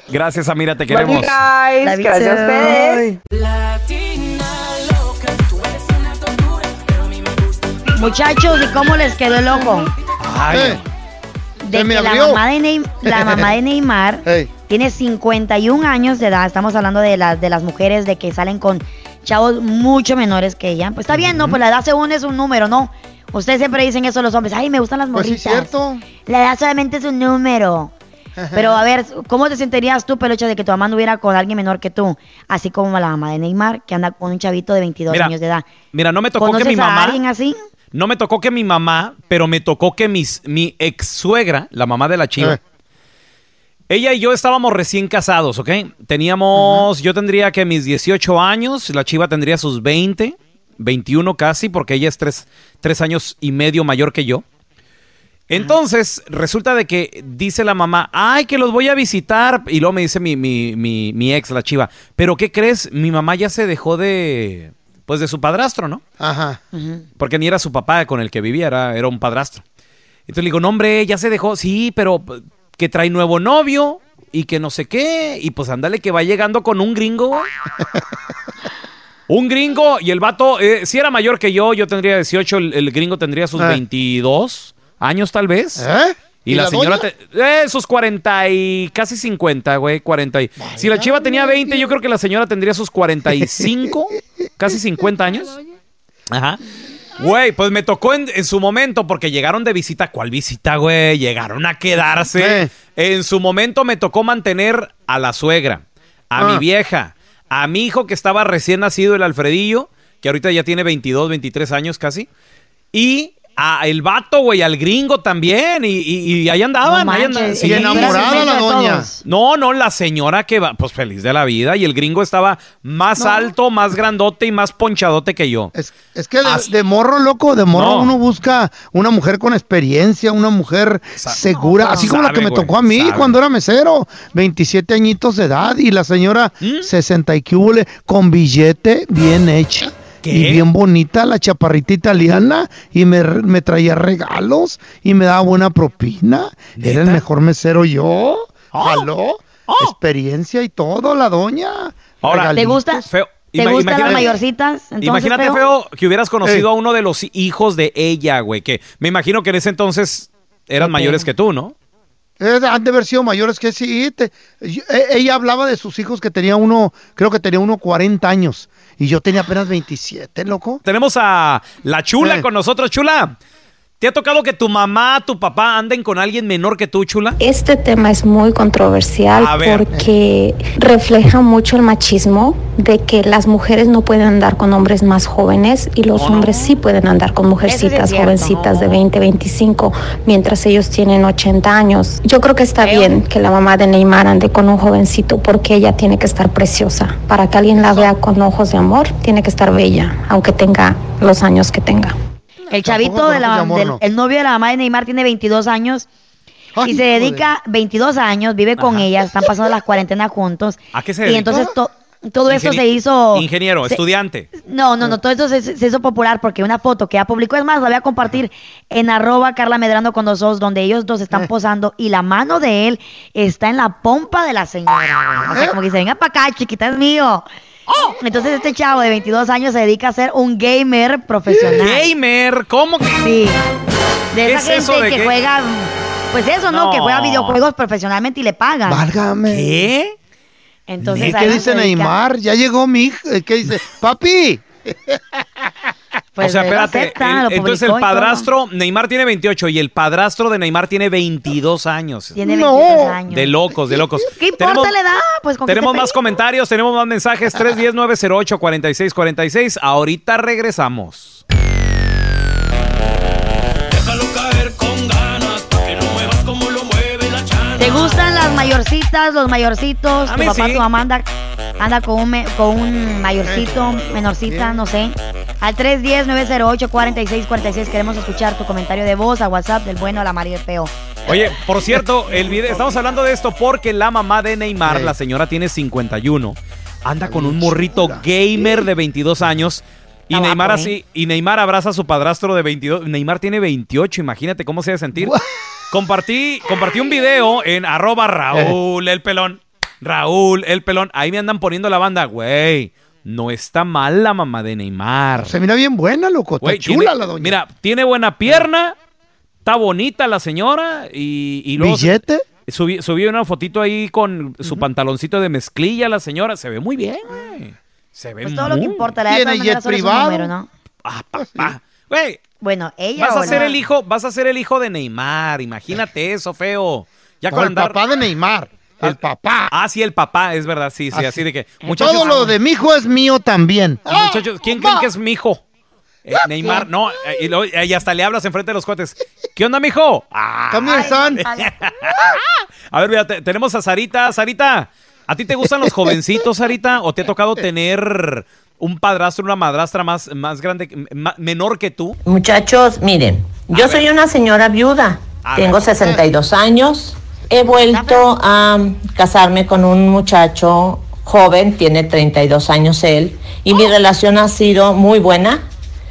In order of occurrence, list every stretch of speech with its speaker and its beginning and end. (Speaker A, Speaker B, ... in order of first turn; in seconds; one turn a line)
Speaker A: 0.1-1.4
Speaker B: 0.9-3.0
Speaker C: 1.8-2.9
Speaker D: 2.6-3.1
Speaker C: 8.0-9.9
Speaker A: 10.2-10.8
Speaker D: 10.5-10.8
Speaker C: 11.6-25.7
Speaker D: 11.7-12.4
Speaker D: 13.1-13.5
Speaker D: 14.3-14.5
Speaker D: 21.1-21.6
Speaker D: 25.1-26.0
Speaker C: 26.2-27.9
Speaker D: 28.4-28.8
Speaker C: 28.5-35.7
Speaker A: 35.9-37.2
Speaker C: 36.4-37.6
Speaker A: 37.9-42.6
Speaker A: 43.9-54.5
Speaker A: 55.5-66.0
Speaker D: 66.2-66.6
Speaker C: 66.7-67.1
Speaker A: 67.2-69.6
Speaker A: 70.3-77.5
Speaker A: 79.3-85.9
Speaker D: 85.8-87.0
Speaker A: 86.5-95.5
Speaker D: 90.6-91.9
Speaker A: 96.3-96.6
Speaker A: 97.2-112.3
Speaker D: 102.3-102.7
Speaker D: 106.4-106.6
Speaker A: 112.9-118.4
Speaker C: 116.8-119.2
Speaker D: 117.6-119.1
Speaker A: 119.2-125.7
Speaker D: 125.7-153.1
Speaker A: 126.4-126.7
Speaker A: 127.8-128.1
Speaker C: 131.4-132.1
Speaker A: 131.9-133.4
Speaker A: 136.6-136.9
Speaker A: 140.2-140.7
Speaker A: 146.8-147.2
Speaker A: 148.7-149.1
Speaker A: 149.7-149.9
Speaker A: 152.2-154.4
Speaker C: 152.5-155.6
Speaker D: 153.8-154.3
Speaker A: 155.0-161.8
Speaker D: 160.8-161.2
Speaker D: 162.4-170.8
Speaker A: 170.8-173.4
Speaker D: 172.2-172.4
Speaker A: 174.0-177.4
Speaker E: 177.4-202.1
Speaker A: 179.3-179.8
Speaker A: 186.1-186.8
Speaker C: 187.6-189.0
Speaker C: 192.8-193.2
Speaker D: 197.8-198.1
Speaker C: 202.7-206.1
Speaker D: 202.7-204.0
Speaker D: 206.8-207.5
Speaker C: 206.8-214.0
Speaker A: 208.8-209.1
Speaker A: 210.9-211.5
Speaker D: 211.5-211.7
Speaker A: 212.5-214.5
Speaker C: 214.6-227.5
Speaker C: 228.2-232.1
Speaker A: 231.8-233.2
Speaker C: 233.1-233.6
Speaker C: 234.3-239.0
Speaker A: 234.4-235.3
Speaker A: 236.7-237.6
Speaker D: 238.9-239.7
Speaker A: 239.5-240.2
Speaker C: 240.9-242.2
Speaker A: 241.0-241.6
Speaker D: 241.2-245.2
Speaker C: 246.4-248.5
Speaker A: 246.4-252.4
Speaker C: 252.3-253.5
Speaker D: 252.4-253.2
Speaker A: 253.3-254.9
Speaker C: 254.3-256.2
Speaker A: 255.7-261.4
Speaker A: 267.8-268.1
Speaker C: 267.8-271.3
Speaker A: 270.3-270.9
Speaker C: 271.8-280.9
Speaker D: 273.4-274.9
Speaker A: 281.3-295.3
Speaker D: 282.3-282.9
Speaker D: 284.9-285.1
Speaker D: 287.3-288.8
Speaker C: 290.3-291.0
Speaker D: 295.2-295.5
Speaker A: 295.9-305.5
Speaker D: 305.4-307.6
Speaker A: 306.6-308.9
Speaker A: 309.6-319.0
Speaker D: 311.8-312.4
Speaker C: 318.4-320.7
Speaker D: 319.3-320.5
Speaker A: 321.0-322.4
Speaker D: 321.4-321.7
Speaker C: 322.6-323.7
Speaker A: 323.2-328.0
Speaker D: 323.4-323.8
Speaker D: 327.5-329.7
Speaker A: 329.7-332.5
Speaker D: 331.1-335.1
Speaker C: 332.0-332.3
Speaker A: 334.1-335.6
Speaker A: 336.2-342.3
Speaker D: 336.6-336.9
Speaker D: 340.7-341.4
Speaker C: 341.0-341.6
Speaker A: 342.9-352.1
Speaker F: 352.2-365.6
Speaker A: 353.7-354.0
Speaker A: 355.4-355.9
Speaker D: 356.0-356.2
Speaker C: 357.6-358.3